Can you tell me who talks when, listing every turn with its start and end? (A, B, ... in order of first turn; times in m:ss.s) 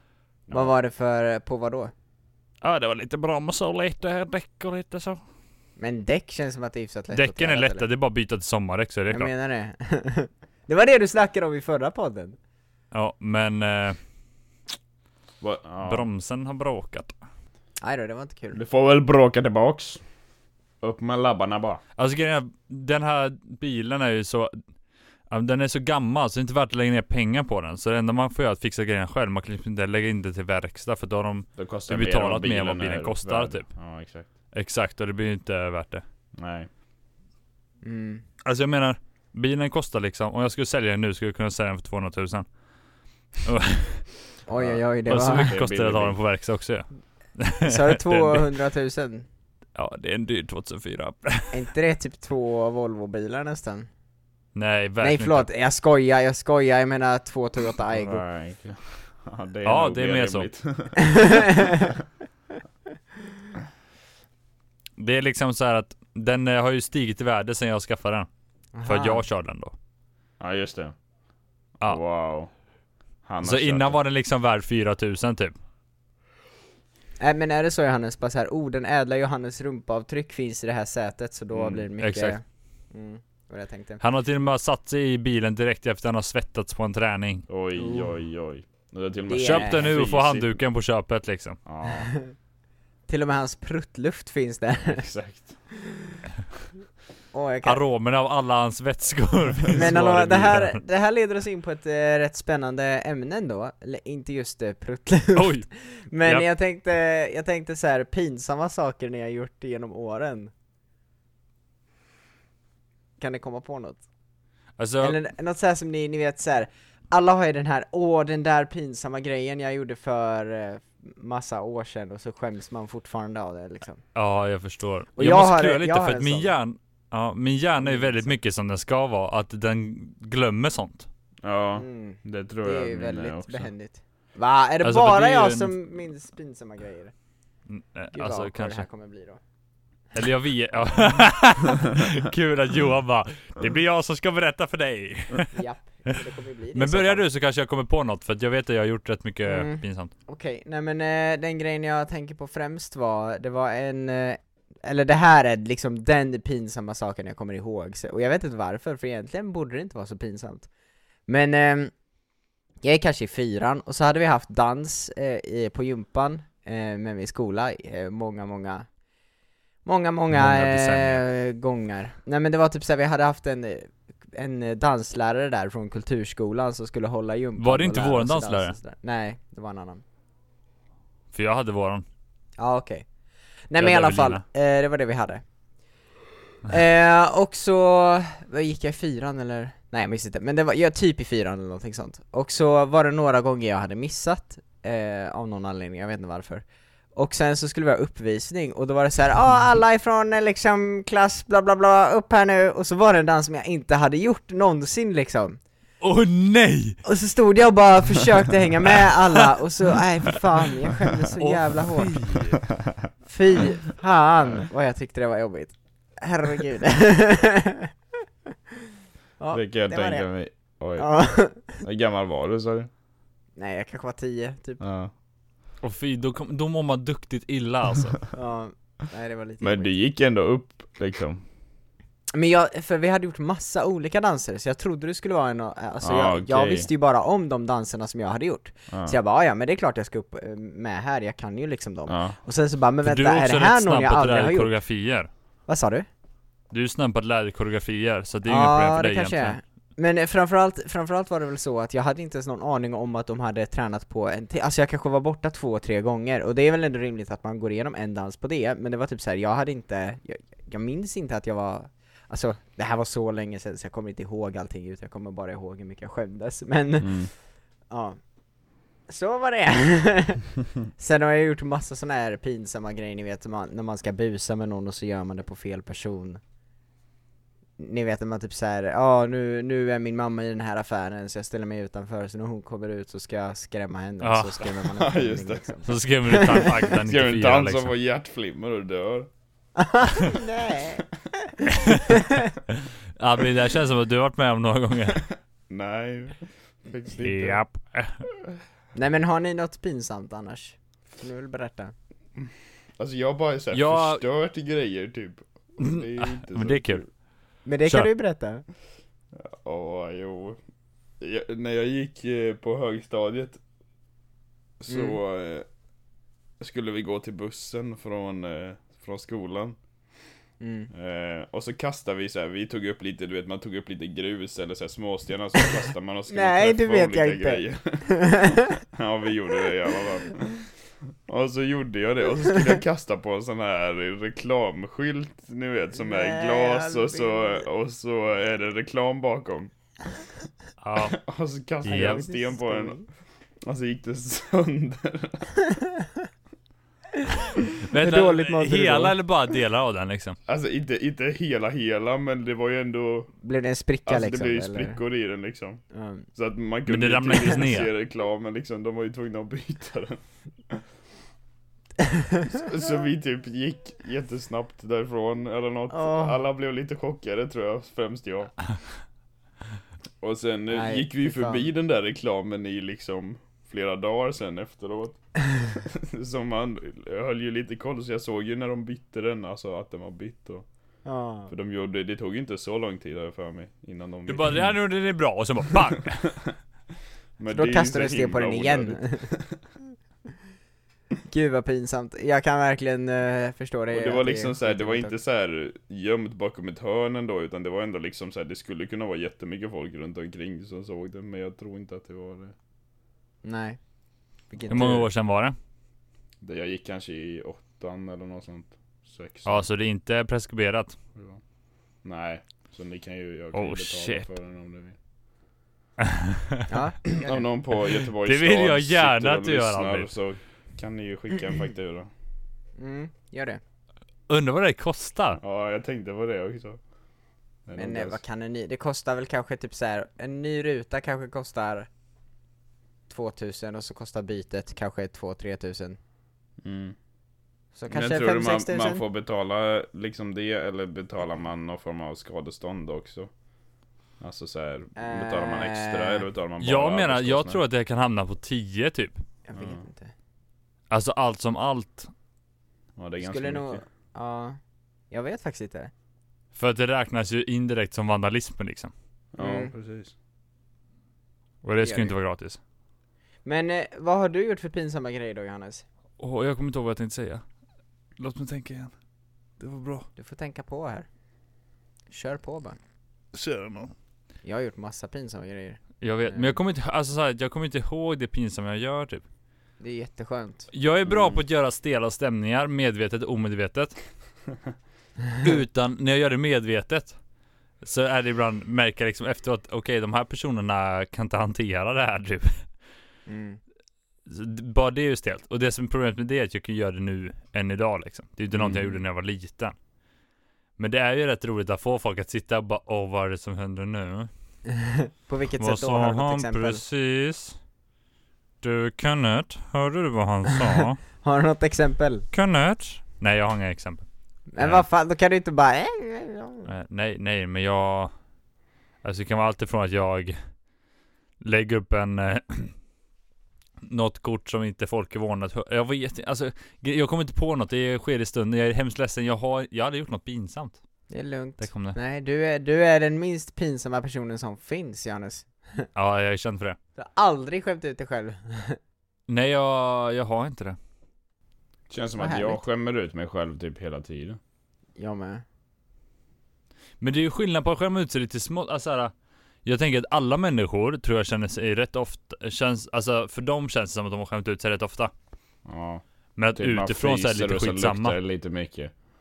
0:00.5-0:00.7 A
0:00.5-0:01.9 B
0:02.6-0:05.2 C
0:05.8-0:07.9 B
0:07.1-0:09.3 C
0:09.1-0:12.4 B
0:12.9-0:14.0 C
0:15.4-0:16.1 A
0:15.8-0:17.2 C
0:17.8-0:18.6 B
0:18.5-0:20.0 A
0:20.8-0:21.8 A
0:22.0-0:24.6 C
0:25.3-0:33.7 C
0:31.6-0:34.3 A
0:34.5-0:36.0 C
0:36.4-0:36.7 A
0:37.8-0:38.2 B
0:38.4-0:42.5 C
0:43.4-0:44.1 C
0:44.5-0:45.5 B
0:44.6-0:46.2 A
0:45.1-0:48.4 C
0:47.6-0:49.3 B
0:49.8-0:51.6 C
0:51.5-0:53.9 B
0:54.6-0:55.5 C
0:55.0-0:58.2 B
0:57.9-1:01.9 A
0:59.6-1:00.5 C
1:01.0-1:01.9 B
1:05.0-1:08.3 C
1:08.8-1:09.2 B
1:08.8-1:09.7 C
1:10.4-1:10.9 A
1:11.8-1:12.5 A
1:13.2-1:14.0 A
1:13.4-1:15.6 C
1:17.2-1:24.0 B
1:21.5-1:21.9 A
1:22.0-1:22.4 C
1:24.0-1:27.5 C
1:27.5-1:30.6 A
1:27.8-1:28.1 B
1:29.3-1:29.9 B
1:29.4-1:31.6 C
1:31.7-1:32.1 A
1:32.0-1:32.2 B
1:33.1-1:35.0 B
1:34.9-1:35.5 A
1:35.9-1:36.2 B
1:37.3-1:37.8 B
1:37.6-1:40.8 C
1:39.7-1:50.5 B
1:45.4-1:45.7 C
1:53.2-1:54.0 B
1:54.8-1:55.2 C
1:55.0-2:04.0 B
2:04.2-2:11.1 C
2:05.2-2:06.5 B
2:07.8-2:08.3 B
2:11.4-2:13.7 A
2:11.8-2:17.1 B
2:14.8-2:15.7 C
2:17.7-2:18.8 C
2:18.1-2:19.4 B
2:20.1-2:25.6 C
2:25.5-2:27.2 B
2:26.8-2:30.1 C
2:29.5-2:40.7 B
2:41.3-2:41.9 B
2:42.8-2:48.9 B
2:49.8-3:00.0 B
2:50.3-2:51.2 C
2:57.6-2:58.8 C
3:01.3-3:02.0 C
3:02.6-3:03.0 B
3:03.7-3:05.4 B
3:03.8-3:04.4 C
3:06.7-3:16.6 B
3:17.2-3:25.6 B
3:26.0-3:27.0 C
3:27.0-3:32.4 B
3:31.4-3:32.6 C
3:33.3-3:37.9 B
3:39.4-3:40.3 B
3:39.5-3:41.1 A
3:41.0-3:41.8 B
3:41.8-3:42.9 A
3:43.6-3:44.8 B
3:44.8-3:45.1 A
3:45.8-3:48.2 C
3:48.3-3:49.9 B
3:49.6-3:51.4 A
3:52.3-4:04.7 B
3:56.0-3:56.9 A
3:58.9-3:59.2 A
4:02.1-4:02.4 A
4:03.0-4:05.3 C
4:05.7-4:06.1 B
4:06.7-4:09.6 C
4:08.5-4:27.3 B
4:27.0-4:27.3 A
4:27.9-4:28.2 B
4:29.1-4:36.4 B
4:37.8-4:46.7 B
4:44.2-4:44.6 C
4:44.8-4:45.8 A
4:45.8-4:47.9 C
4:46.9-4:49.3 A
4:49.8-4:52.5 B
4:51.7-4:52.0 C
4:53.2-4:55.2 C
4:55.7-4:57.6 A
4:57.2-4:58.2 C
4:59.0-5:01.9 B
5:02.4-5:07.1 A
5:03.7-5:04.2 C
5:05.8-5:07.0 C
5:07.6-5:08.6 B
5:09.3-5:10.6 A
5:11.2-5:13.6 A
5:14.8-5:15.7 A
5:14.9-5:15.2 B
5:16.6-5:19.8 A
5:20.6-5:20.9 B
5:20.9-5:39.7 A
5:26.3-5:28.8 B
5:36.0-5:37.6 B
5:40.8-5:41.2 C
5:41.0-5:43.0 A
5:41.9-5:42.3 C
5:41.9-5:43.0 B
5:43.6-5:45.5 A
5:47.5-5:49.2 B
5:47.9-5:50.4 C
5:50.5-5:53.3 A
5:53.4-5:55.0 B
5:54.1-5:55.8 A
5:55.9-5:56.3 B
5:56.3-6:00.8 A
5:56.9-5:57.9 C
6:02.0-6:02.5 B
6:02.5-6:08.6 A
6:05.9-6:06.4 B
6:10.2-6:20.7 A
6:10.7-6:11.7 B
6:21.0-6:21.5 B
6:21.5-6:24.8 A
6:24.3-6:26.3 C
6:27.4-6:29.6 A
6:27.5-6:29.3 B
6:31.3-6:35.1 B
6:33.9-6:42.6 A
6:43.4-6:43.8 B
6:44.5-6:45.1 B
6:44.7-6:45.6 C
6:46.4-6:49.6 A
6:49.4-6:51.0 C
6:51.2-6:51.4 A
6:52.0-6:55.0 A
6:53.5-6:54.3 C
6:56.0-6:56.7 C
6:56.7-6:57.4 B
6:57.2-7:02.1 A
6:58.2-7:00.1 C
7:02.8-7:03.6 B
7:04.3-7:05.4 C
7:05.4-7:06.8 A
7:07.7-7:08.2 A
7:07.8-7:11.9 B
7:13.1-7:16.0 B
7:16.6-7:17.0 A
7:17.8-7:19.0 B
7:17.9-7:23.3 A
7:24.2-7:27.6 A
7:25.0-7:26.3 B
7:26.6-7:29.2 C
7:29.5-7:30.1 B
7:29.6-7:29.8 A
7:30.9-7:32.1 C
7:33.0-7:33.8 A
7:33.2-7:34.6 B
7:35.1-7:35.9 B
7:36.6-7:38.9 C
7:39.3-7:40.1 A
7:39.4-7:39.7 B
7:41.6-7:42.6 C
7:41.8-7:42.1 B
7:43.4-7:45.8 B
7:46.2-7:47.4 C
7:48.2-7:48.9 C
7:49.6-7:50.1 C
7:50.2-7:51.1 B
7:52.1-7:52.8 B
7:53.3-7:53.9 C
7:54.4-7:56.6 B
7:56.0-7:59.2 C
7:59.8-8:00.7 B
8:00.7-8:04.0 C
8:01.1-8:01.4 A
8:05.4-8:07.2 C
8:07.8-8:12.7 C
8:13.3-8:13.6 B
8:14.3-8:19.8 C
8:18.5-8:19.0 A
8:20.8-8:24.3 C
8:24.7-8:26.8 B
8:25.6-8:27.6 C
8:28.6-8:31.0 C
8:31.2-8:32.3 B
8:32.3-8:34.1 C
8:34.5-8:36.7 B
8:34.6-8:34.8 C
8:36.7-8:38.1 C
8:39.0-8:40.4 C
8:41.4-8:42.8 C
8:43.8-8:50.8 C
8:51.1-8:55.9 B
8:51.6-8:52.0 C
8:56.0-8:56.8 C
8:57.0-8:58.8 B
8:59.3-9:00.8 C
9:01.9-9:04.4 A
9:02.2-9:02.6 B
9:05.0-9:05.4 B
9:07.0-9:09.1 C
9:09.6-9:15.1 C
9:15.7-9:16.0 A
9:16.4-9:18.2 C
9:16.6-9:18.9 A